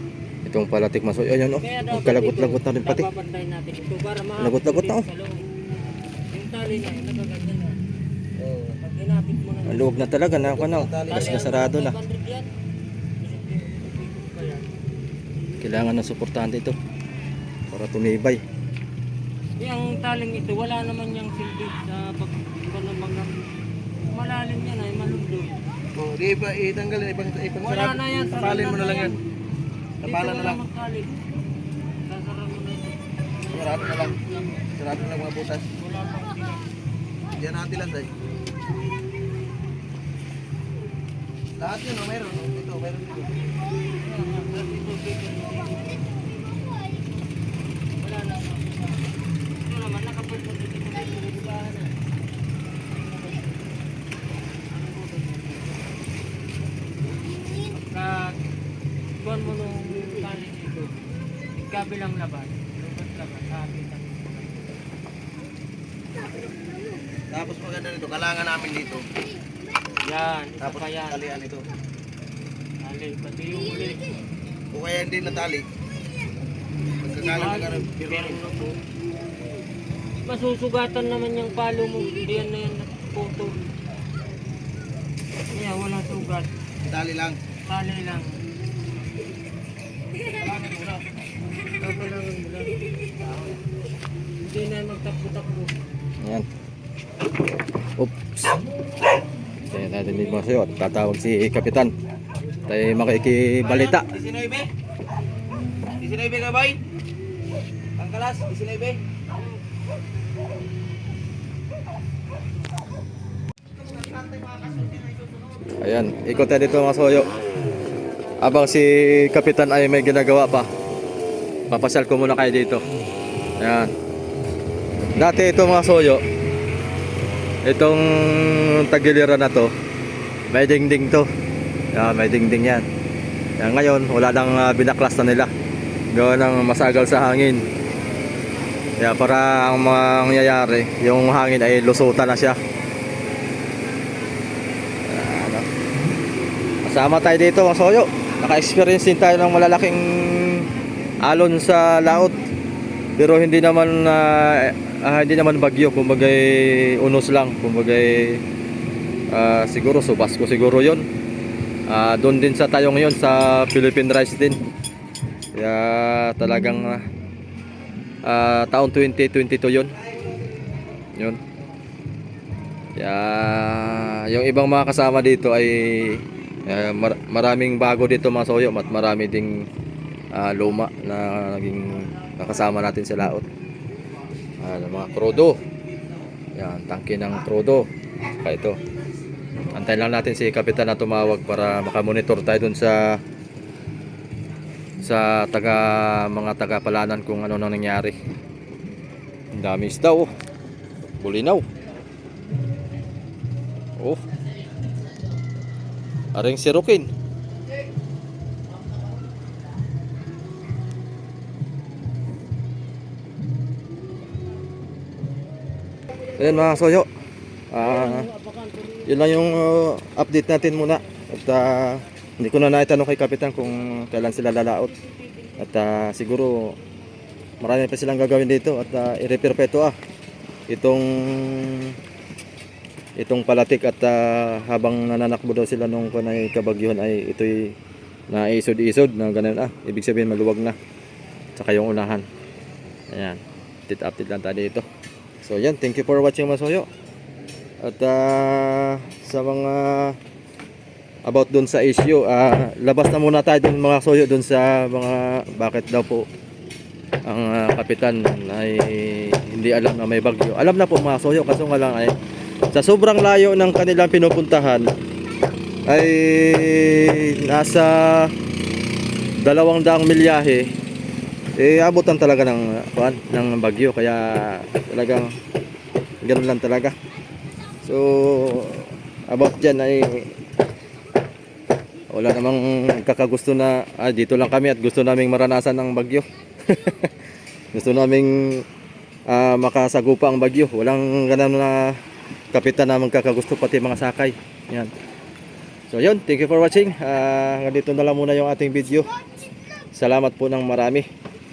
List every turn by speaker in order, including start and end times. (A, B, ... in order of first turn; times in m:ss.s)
0:00.5-0:03.1 A
0:01.6-0:05.4 B
0:04.4-0:05.1 A
0:06.3-0:07.8 B
0:08.4-0:08.8 C
0:08.8-0:10.1 B
0:09.7-0:12.0 A
0:10.3-0:11.6 C
0:11.1-0:12.5 B
0:13.2-0:14.7 B
0:15.6-0:16.8 A
0:17.7-0:18.4 A
0:19.6-0:23.3 B
0:24.1-0:25.6 B
0:26.0-0:29.1 C
0:27.6-0:29.2 B
0:30.0-0:30.6 C
0:30.0-0:31.2 B
0:32.1-0:35.1 B
0:33.5-0:34.2 C
0:34.8-0:35.7 C
0:35.8-0:36.6 B
0:37.4-0:38.1 C
0:41.6-0:43.4 C
0:44.0-0:46.2 B
0:48.0-0:51.9 B
0:52.9-0:53.7 B
0:54.7-0:56.0 B
0:57.7-0:58.3 B
0:59.2-1:00.9 B
1:01.7-1:04.8 B
1:07.3-1:09.0 C
1:10.0-1:11.2 B
1:10.6-1:11.6 C
1:12.8-1:14.2 B
1:14.7-1:15.7 C
1:17.0-1:18.4 C
1:17.2-1:18.8 B
1:20.3-1:23.6 B
1:25.5-1:26.5 B
1:26.8-1:27.4 C
1:27.7-1:28.4 B
1:30.4-1:30.9 B
1:30.4-1:31.0 C
1:31.7-1:33.6 B
1:34.4-1:35.7 B
1:38.0-1:38.6 A
1:39.7-1:41.9 A
1:42.7-1:44.1 A
1:43.6-1:44.7 C
1:45.8-1:46.8 C
1:48.0-1:49.0 C
1:53.9-1:54.9 C
1:55.8-1:57.3 A
1:58.4-2:00.7 A
2:01.7-2:02.8 A
2:03.6-2:03.9 A
2:05.1-2:06.2 A
2:07.6-2:09.7 A
2:10.5-2:11.3 A
2:11.9-2:12.9 A
2:13.6-2:15.5 A
2:16.1-2:17.6 A
2:19.0-2:22.6 A
2:25.1-2:25.7 A
2:26.8-2:30.7 A
2:31.2-2:32.4 A
2:33.2-2:38.4 A
2:39.3-2:41.1 A
2:41.9-2:44.6 A
2:45.6-2:47.0 A
2:48.2-2:49.9 A
2:50.0-2:51.0 C
2:51.2-2:51.4 A
2:53.0-2:59.7 A
3:00.3-3:03.5 A
3:04.6-3:05.6 A
3:06.6-3:07.9 A
3:08.4-3:08.8 A
3:09.7-3:13.2 A
3:15.0-3:18.2 A
3:19.6-3:20.3 A
3:21.2-3:21.7 A
3:26.3-3:27.1 A
3:36.4-3:37.1 A
3:37.7-3:38.3 A
3:37.8-3:39.1 B
3:39.1-3:44.9 A
3:45.6-3:46.8 A
3:47.6-3:50.0 A
3:50.7-3:51.9 A
3:53.2-3:57.8 A
3:58.3-4:00.8 A
4:01.6-4:02.2 A
4:03.1-4:04.8 A
4:05.4-4:06.9 A
4:07.8-4:10.2 A
4:11.3-4:16.3 A
4:17.3-4:22.1 A
4:22.7-4:24.9 A
4:25.9-4:28.3 A
4:29.4-4:30.7 A
4:31.6-4:35.3 A
4:36.2-4:37.0 A
4:37.8-4:40.3 A
4:42.1-4:47.1 A
4:47.7-4:48.6 A
4:49.3-4:52.0 A
4:52.5-4:54.9 A
4:55.9-4:59.1 A
4:59.9-5:01.1 A